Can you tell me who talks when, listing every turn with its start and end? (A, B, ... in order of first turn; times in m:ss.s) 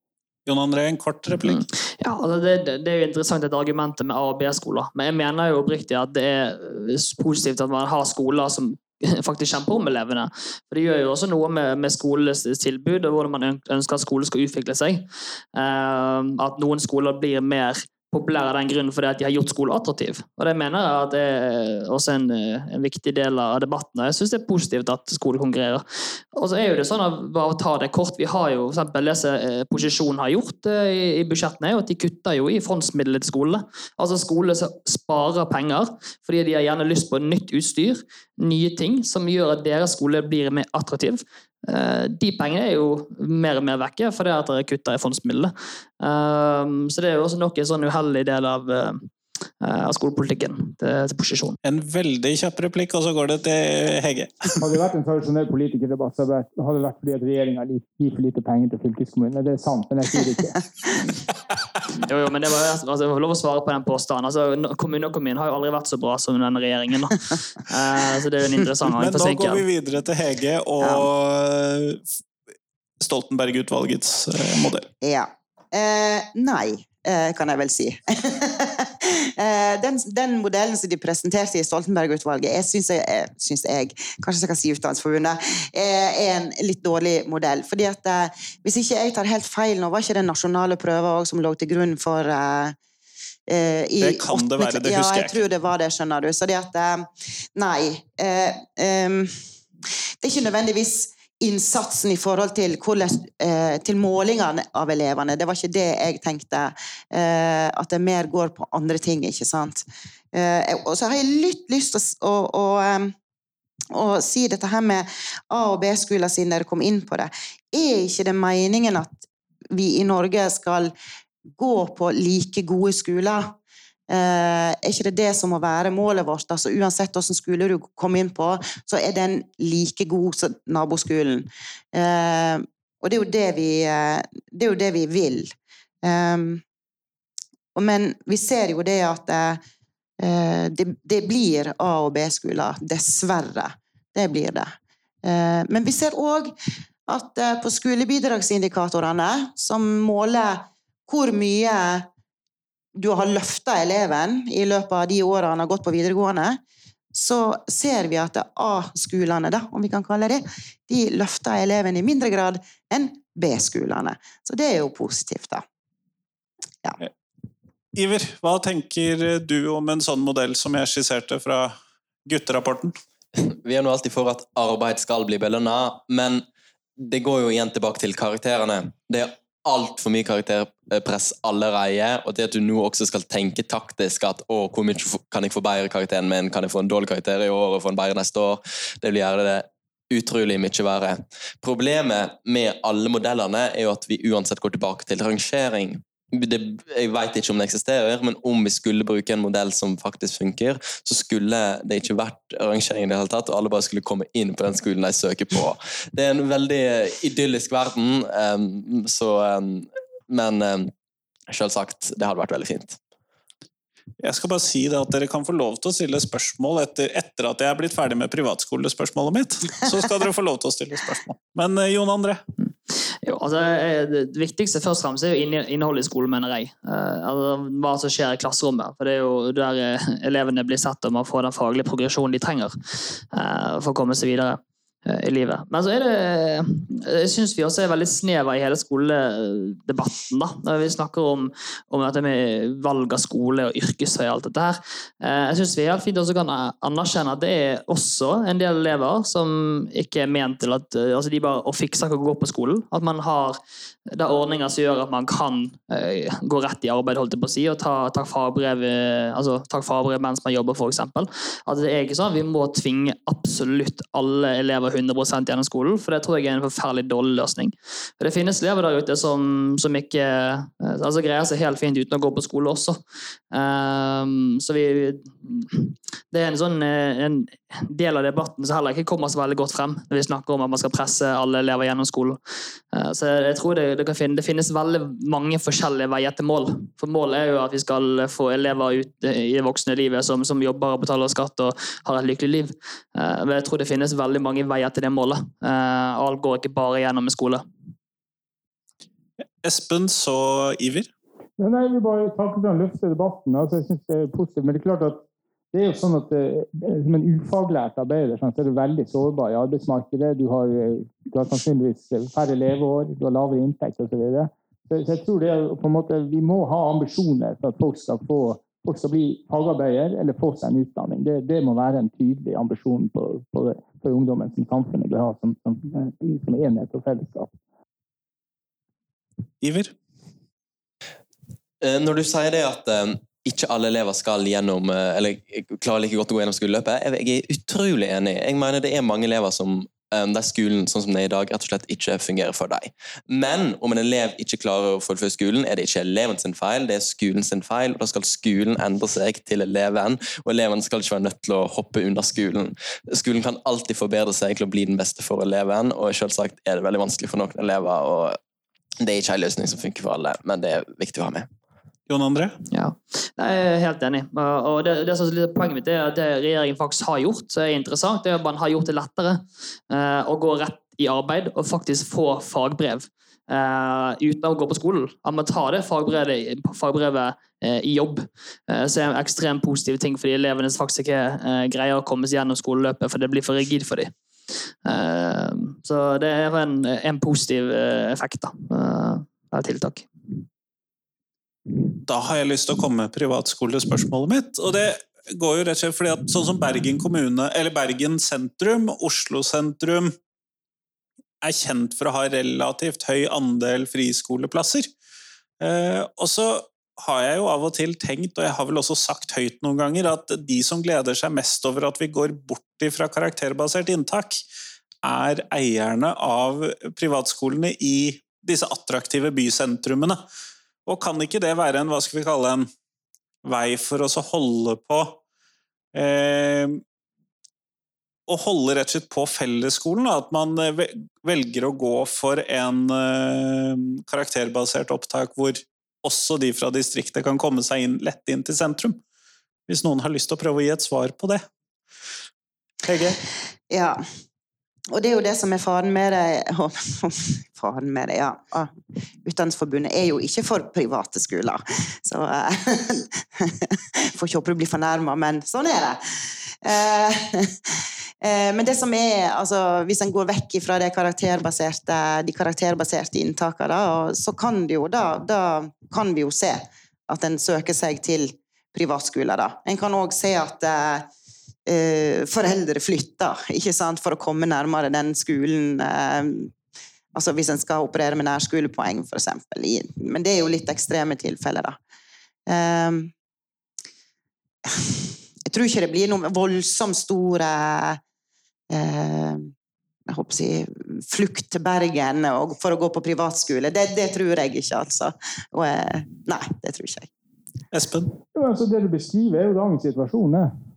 0:00.5-0:01.7 A
0:01.5-0:51.6 B
0:51.6-0:54.6 A
0:54.6-1:00.6 C
1:02.0-1:09.6 B
1:08.9-1:12.0 A
1:10.8-1:11.1 D
1:13.0-1:14.9 A
1:15.0-1:32.8 D
1:33.5-1:39.4 D
1:34.0-1:35.4 A
1:40.2-1:53.1 D
1:53.9-2:00.9 D
2:01.6-2:03.6 D
2:04.1-2:16.6 D
2:17.8-2:19.6 D
2:20.2-2:24.7 D
2:25.2-2:26.5 D
2:27.1-2:32.1 D
2:33.0-2:36.6 D
2:37.1-2:45.6 D
2:47.9-2:51.8 A
2:52.3-2:53.0 A
2:53.4-2:56.4 E
2:57.0-3:30.9 E
3:31.5-3:33.0 E
3:34.2-3:42.4 A
3:43.2-3:52.8 B
3:53.3-4:13.6 B
4:14.1-4:42.4 B
4:42.9-4:57.6 B
4:59.6-5:01.1 A
5:01.6-5:27.5 C
5:29.6-5:29.9 A
5:31.8-5:58.4 E
5:59.0-6:01.5 E
6:02.1-6:02.6 A
6:02.7-6:24.2 B
6:24.8-6:30.1 B
6:32.0-6:40.2 A
6:41.4-6:44.9 A
6:45.6-6:54.4 A
6:55.0-7:00.2 A
7:00.9-7:02.7 A
7:03.4-7:05.2 A
7:05.9-7:06.8 A
7:08.3-7:19.0 A
7:19.7-7:21.4 A
7:22.8-7:23.2 A
7:23.7-7:24.0 D
7:24.9-7:28.7 D
7:29.2-7:51.1 D
7:51.7-7:56.5 D
7:57.2-8:01.8 D
8:02.5-8:03.1 D
8:04.7-8:08.0 D
8:08.7-8:09.5 D
8:10.1-8:17.1 D
8:17.7-8:18.1 A
8:18.3-8:20.5 C